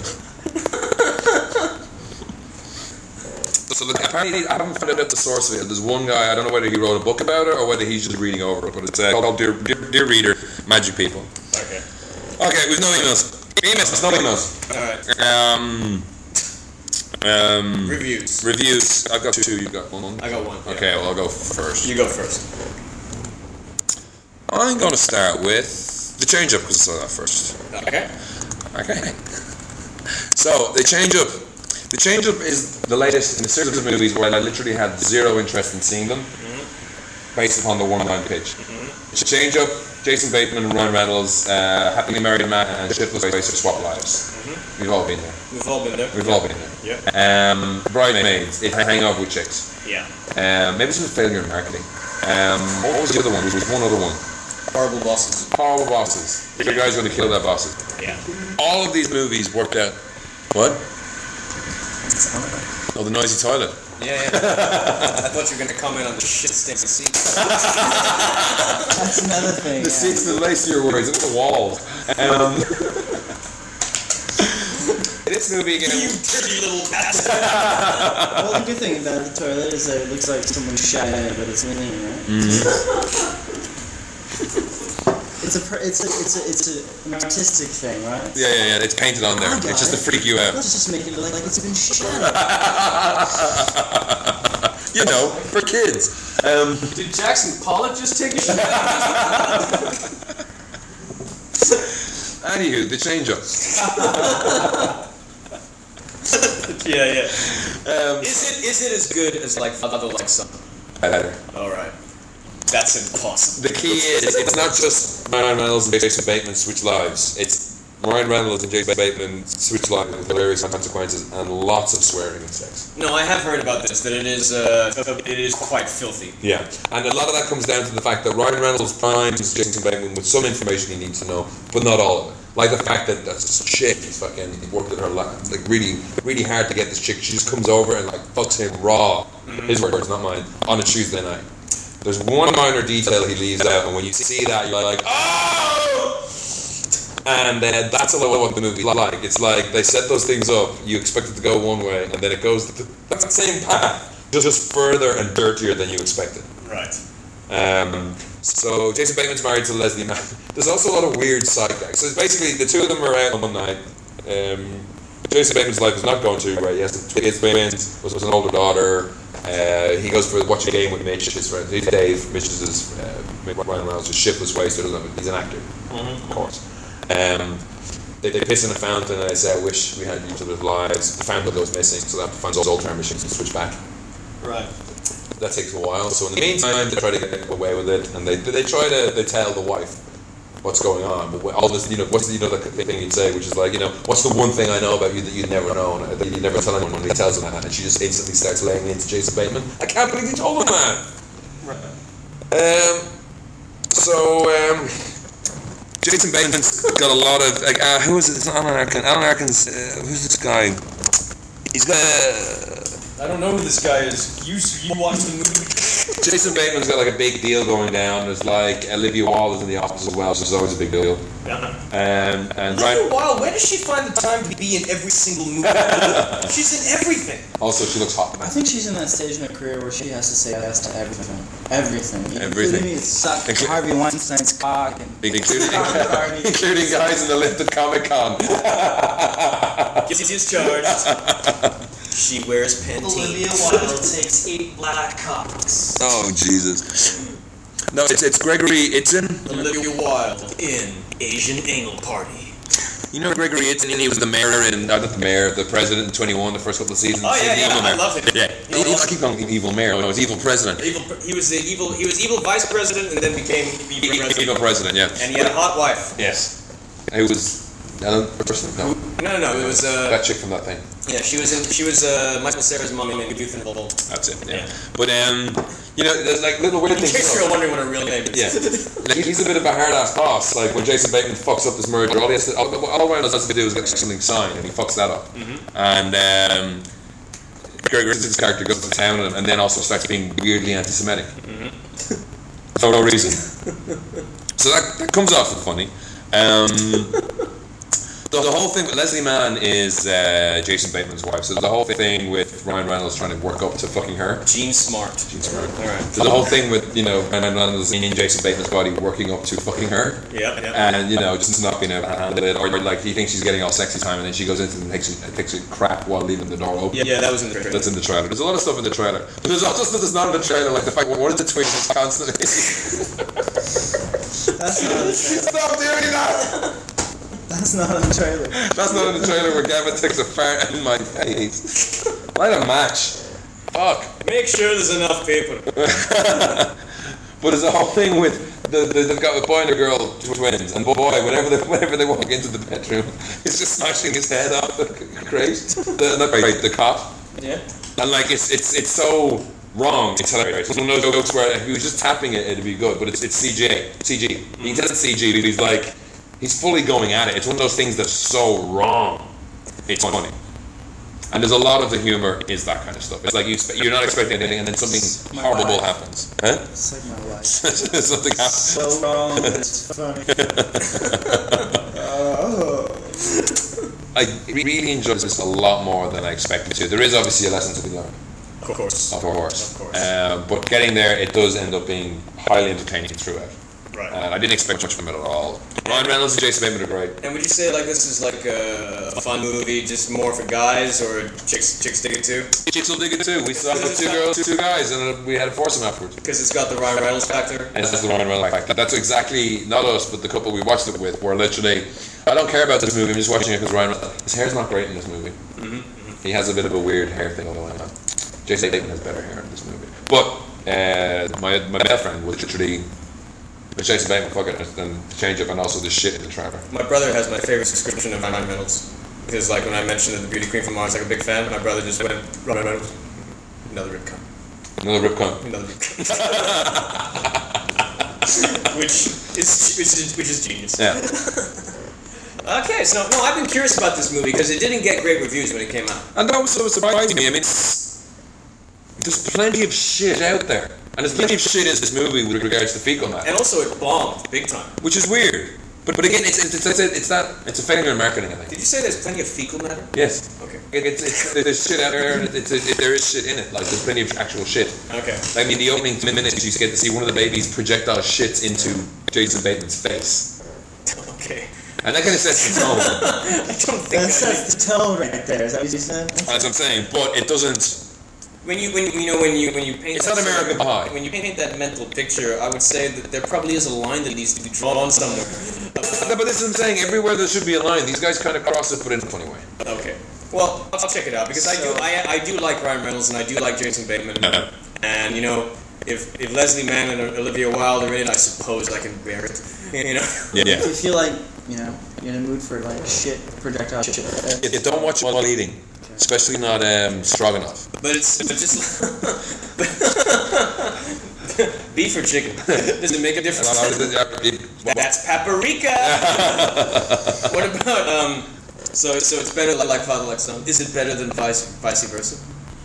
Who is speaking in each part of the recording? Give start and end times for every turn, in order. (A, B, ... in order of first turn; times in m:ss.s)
0:01.0-0:01.4 A
0:03.7-0:11.3 B
0:11.5-0:11.8 A
0:12.4-0:16.1 B
0:14.7-0:15.0 A
0:17.2-0:21.9 B
0:17.8-0:18.5 A
0:20.2-0:20.9 A
0:21.8-0:22.4 A
0:24.5-0:27.6 B
0:27.7-0:28.1 A
0:28.7-0:29.2 B
0:30.3-0:36.3 B
0:36.4-0:36.7 A
0:37.3-0:38.6 B
0:38.6-0:39.0 A
0:39.1-0:44.2 B
0:44.3-0:44.6 A
0:44.8-0:45.4 B
0:45.5-0:47.0 A
0:46.1-0:49.7 B
0:49.8-0:50.1 A
0:50.3-0:54.2 B
0:54.7-0:55.5 A
0:55.5-0:57.8 B
0:56.6-0:56.9 A
0:58.6-1:00.0 B
1:00.5-1:00.8 B
1:02.1-1:02.7 C
1:02.9-1:05.3 B
1:04.0-1:08.9 A
1:07.4-1:08.4 B
1:08.9-1:10.4 C
1:09.7-1:13.0 B
1:15.2-1:16.2 B
1:15.8-1:18.2 A
1:17.2-1:18.6 B
1:18.3-1:22.7 C
1:22.3-1:22.8 B
1:25.4-1:28.4 C
1:28.3-1:30.6 B
1:29.4-1:32.7 C
1:32.1-1:37.0 B
1:35.0-1:35.5 A
1:36.9-1:40.0 A
1:38.6-1:39.9 B
1:42.4-1:44.9 B
1:43.8-1:44.9 A
1:46.3-1:47.4 A
1:47.4-1:48.5 B
1:48.2-1:50.6 A
1:51.0-1:51.4 B
1:51.5-1:51.9 A
1:52.7-1:54.6 A
1:53.6-2:02.9 B
2:03.0-2:06.4 A
2:06.4-2:21.5 B
2:19.4-2:19.8 A
2:22.0-2:26.4 B
2:27.2-2:36.5 B
2:36.6-2:37.0 A
2:37.5-2:57.6 B
2:55.9-2:56.3 A
2:58.2-3:03.8 B
3:04.4-3:04.7 A
3:05.4-3:10.0 B
3:10.6-3:21.1 B
3:22.5-3:23.1 B
3:23.9-3:25.1 B
3:26.0-3:30.8 B
3:31.7-3:32.9 B
3:33.2-3:36.4 A
3:36.2-3:41.3 B
3:41.4-3:41.8 A
3:41.9-3:43.1 B
3:42.7-3:47.5 A
3:45.6-3:46.5 B
3:47.6-3:48.5 B
3:48.4-3:57.1 C
3:52.4-3:53.8 B
3:55.2-4:00.1 B
4:00.0-4:01.2 A
4:00.7-4:01.7 B
4:02.1-4:04.0 A
4:03.0-4:06.0 C
4:06.0-4:07.2 B
4:07.9-4:09.8 B
4:09.4-4:12.6 A
4:13.1-4:20.8 B
4:17.2-4:19.1 A
4:20.8-4:26.1 A
4:24.0-4:25.6 B
4:26.2-4:26.5 B
4:27.1-4:30.8 B
4:28.8-4:30.2 A
4:31.0-4:34.7 A
4:34.1-4:37.6 B
4:36.9-4:39.1 A
4:38.3-4:46.8 B
4:45.3-4:45.6 A
4:47.8-4:51.3 B
4:51.4-4:52.2 A
4:52.8-4:53.4 B
4:54.6-4:57.2 B
4:58.3-5:04.5 B
5:04.4-5:06.2 A
5:05.3-5:17.1 B
5:10.3-5:10.8 A
5:16.9-5:17.9 A
5:17.7-5:23.0 B
5:24.6-5:25.6 C
5:24.8-5:26.7 B
5:27.5-5:29.3 C
5:28.5-5:33.2 B
5:33.7-5:34.1 B
5:34.2-5:35.9 A
5:35.8-5:36.8 B
5:37.4-5:47.2 B
5:47.4-5:47.6 A
5:48.0-5:59.3 B
5:54.6-5:54.8 A
5:59.9-6:00.3 B
6:01.3-6:06.7 B
6:04.9-6:05.9 C
6:06.7-6:07.7 C
6:07.4-6:09.6 B
6:08.4-6:10.6 C
6:10.3-6:11.8 B
6:11.0-6:11.3 A
6:11.9-6:13.3 C
6:14.1-6:18.1 B
6:18.6-6:20.0 A
6:19.1-6:23.6 B
6:23.9-6:24.2 A
6:24.1-6:27.2 B
6:25.8-6:26.2 A
6:27.2-6:32.5 A
6:32.6-6:36.2 B
6:33.5-6:34.3 A
6:36.2-6:37.8 A
6:37.7-6:45.4 B
6:45.6-6:46.2 A
6:46.2-6:47.9 B
6:48.5-6:52.8 B
6:53.8-6:56.7 B
6:56.7-7:03.0 A
7:03.7-7:04.2 A
7:04.8-7:05.4 B
7:05.4-7:07.0 A
7:06.0-7:07.3 B
7:08.3-7:11.7 A
7:12.4-7:16.1 A
7:16.2-7:18.0 B
7:19.0-7:23.3 B
7:23.2-7:24.8 A
7:24.8-7:28.5 B
7:28.5-7:31.4 A
7:29.9-7:40.3 B
7:34.9-7:35.3 A
7:40.9-7:41.5 A
7:41.8-7:43.2 B
7:42.3-7:44.5 A
7:43.9-7:46.4 C
7:46.2-7:47.8 B
7:48.4-7:56.2 A
7:49.9-7:50.9 B
7:55.9-7:59.5 B
7:59.6-8:10.6 A
8:01.4-8:01.9 C
8:04.2-8:04.5 B
8:10.3-8:10.7 B
8:10.4-8:14.9 C
8:14.4-8:17.7 B
8:17.8-8:24.0 A
8:23.4-8:24.9 B
8:24.6-8:32.2 A
8:25.8-8:27.3 B